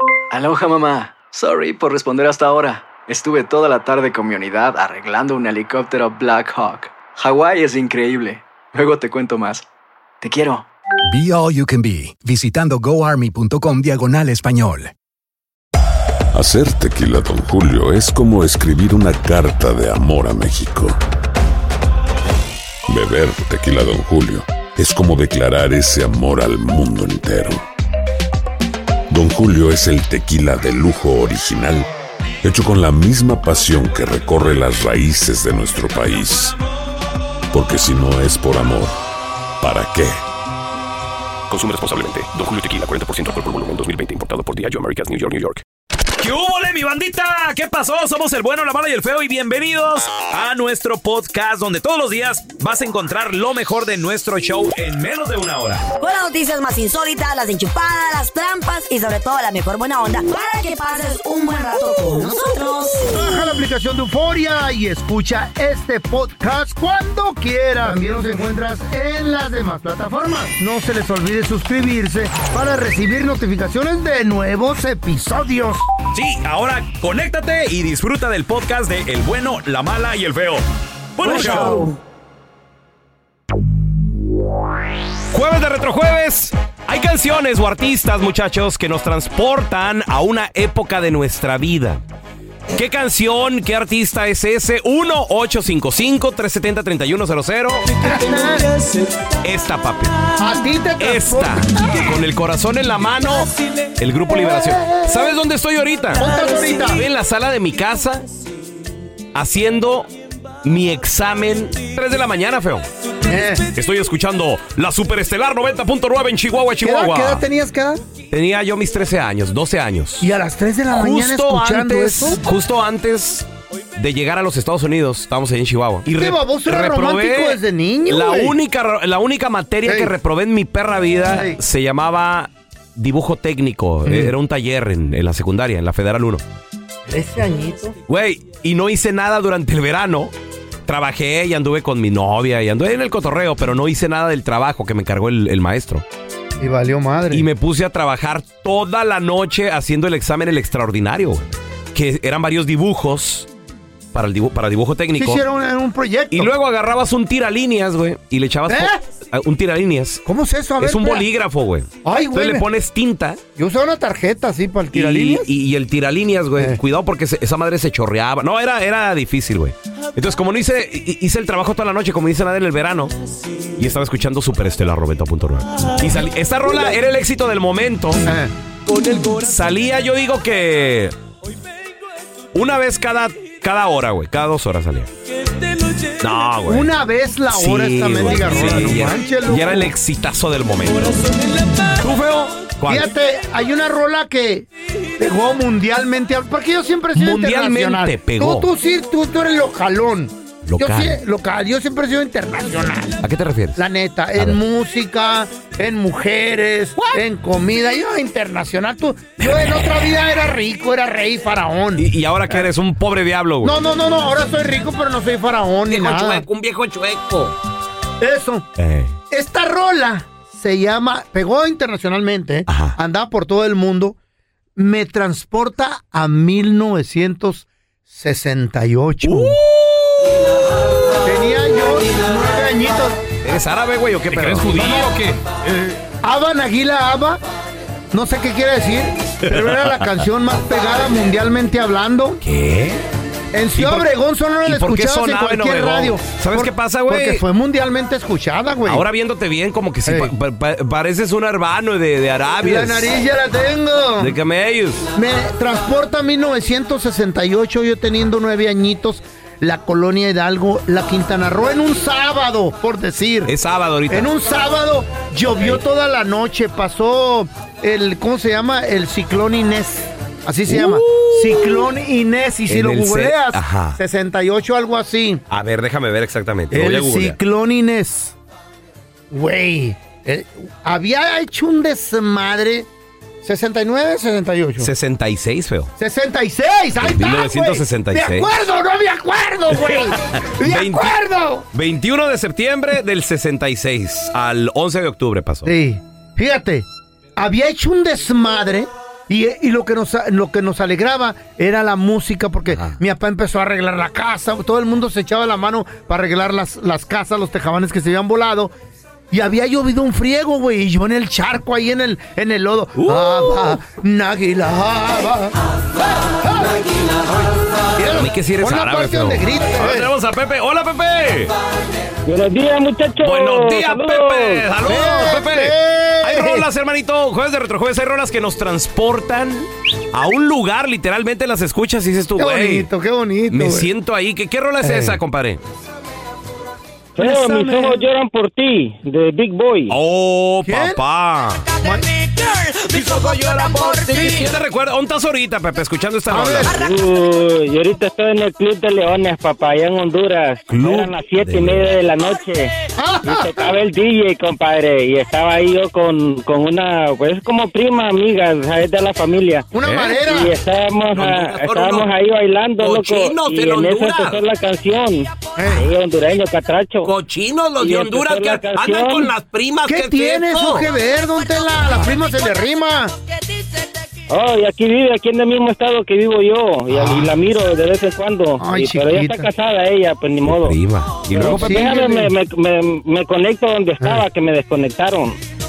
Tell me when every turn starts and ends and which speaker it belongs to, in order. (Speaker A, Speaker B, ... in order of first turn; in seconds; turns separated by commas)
Speaker A: 0.3-9.7, Speaker A: 10.2-10.7, Speaker B: 11.1-14.9, Speaker C: 16.3-21.0, Speaker C: 22.9-27.6, Speaker C: 29.1-31.9, Speaker C: 32.4-36.6, Speaker C: 37.5-38.9, Speaker C: 39.6-40.2, Speaker D: 41.5-45.6, Speaker E: 46.2-55.8, Speaker F: 56.0-63.1, Speaker G: 63.0-75.8, Speaker E: 76.1-80.6, Speaker E: 81.2-81.9, Speaker F: 81.2-81.9, Speaker E: 85.3-92.0, Speaker E: 92.7-98.1, Speaker G: 98.0-98.7, Speaker E: 99.3-100.3, Speaker G: 100.4-102.2, Speaker E: 101.0-108.3, Speaker G: 104.3-105.0, Speaker G: 106.2-107.0, Speaker E: 109.3-110.1, Speaker E: 110.6-112.8, Speaker G: 113.2-113.7, Speaker E: 113.7-117.4, Speaker G: 116.8-118.0, Speaker E: 118.3-120.3, Speaker G: 120.2-122.4, Speaker E: 120.9-136.4, Speaker G: 126.1-128.5, Speaker G: 129.8-130.1, Speaker G: 131.3-131.6, Speaker G: 134.1-134.3, Speaker G: 137.1-137.9, Speaker E: 138.1-140.3, Speaker E: 140.8-146.0, Speaker G: 146.6-147.4, Speaker E: 147.3-153.5, Speaker E: 154.1-155.4, Speaker G: 155.2-156.5, Speaker E: 156.3-160.2, Speaker G: 158.7-159.0, Speaker G: 160.2-161.2, Speaker E: 160.8-163.4, Speaker G: 162.0-162.6, Speaker G: 163.6-165.5, Speaker E: 164.9-173.2, Speaker E: 173.8-178.2, Speaker G: 176.7-176.9, Speaker G: 178.2-178.5, Speaker E: 178.9-181.1, Speaker E: 182.5-185.1, Speaker E: 186.2-186.9, Speaker G: 186.7-189.9, Speaker E: 187.5-193.1, Speaker G: 192.9-203.2, Speaker E: 197.2-198.7, Speaker E: 200.7-201.2, Speaker E: 203.2-203.8, Speaker G: 203.8-212.6, Speaker E: 209.4-210.2, Speaker E: 212.0-213.8, Speaker G: 213.6-216.4, Speaker E: 215.9-217.5, Speaker G: 218.2-218.7, Speaker E: 218.8-219.2, Speaker G: 219.3-224.2, Speaker E: 222.7-222.9, Speaker G: 224.8-229.6, Speaker E: 229.2-229.7, Speaker G: 231.2-233.3, Speaker E: 233.4-235.4, Speaker G: 234.3-235.1, Speaker G: 236.2-237.4, Speaker G: 238.1-242.4, Speaker E: 239.5-239.9, Speaker E: 242.4-243.0, Speaker G: 243.5-249.0, Speaker E: 243.8-244.1, Speaker E: 244.6-247.4, Speaker E: 248.8-253.1, Speaker G: 250.1-250.3, Speaker G: 252.6-254.3, Speaker E: 254.2-255.0, Speaker G: 255.2-263.5, Speaker E: 263.5-264.3, Speaker G: 264.1-275.4, Speaker E: 270.7-271.9, Speaker E: 272.7-274.0, Speaker E: 275.5-277.4, Speaker G: 276.7-278.4, Speaker G: 279.3-282.9, Speaker G: 283.4-284.9, Speaker E: 284.8-285.9, Speaker G: 286.0-291.6, Speaker E: 287.0-288.5, Speaker E: 289.9-291.2, Speaker E: 291.7-295.7, Speaker G: 295.6-296.9, Speaker G: 297.4-308.7, Speaker G: 309.3-315.6, Speaker E: 312.9-313.8, Speaker G: 316.3-316.8, Speaker G: 318.0-320.1, Speaker E: 318.1-321.5, Speaker H: 322.3-324.7, Speaker E: 323.2-332.9, Speaker G: 324.8-326.7, Speaker G: 332.4-333.9, Speaker E: 333.5-335.6, Speaker G: 334.8-335.2, Speaker H: 337.2-339.9, Speaker G: 337.2-338.0, Speaker E: 339.9-341.7, Speaker G: 340.7-341.0, Speaker E: 342.5-346.8, Speaker G: 346.3-346.7, Speaker H: 346.7-352.7, Speaker E: 350.7-351.9, Speaker G: 353.0-353.8, Speaker H: 353.2-359.7, Speaker G: 359.7-360.5, Speaker E: 359.8-360.2, Speaker H: 360.2-367.1, Speaker E: 361.1-362.1, Speaker E: 362.8-364.4, Speaker G: 365.6-365.9, Speaker E: 367.0-370.9, Speaker H: 367.8-369.3, Speaker G: 369.9-373.1, Speaker H: 374.3-380.8, Speaker G: 376.9-377.3, Speaker G: 378.6-379.5, Speaker E: 380.4-382.2, Speaker H: 381.3-385.4, Speaker G: 381.4-382.3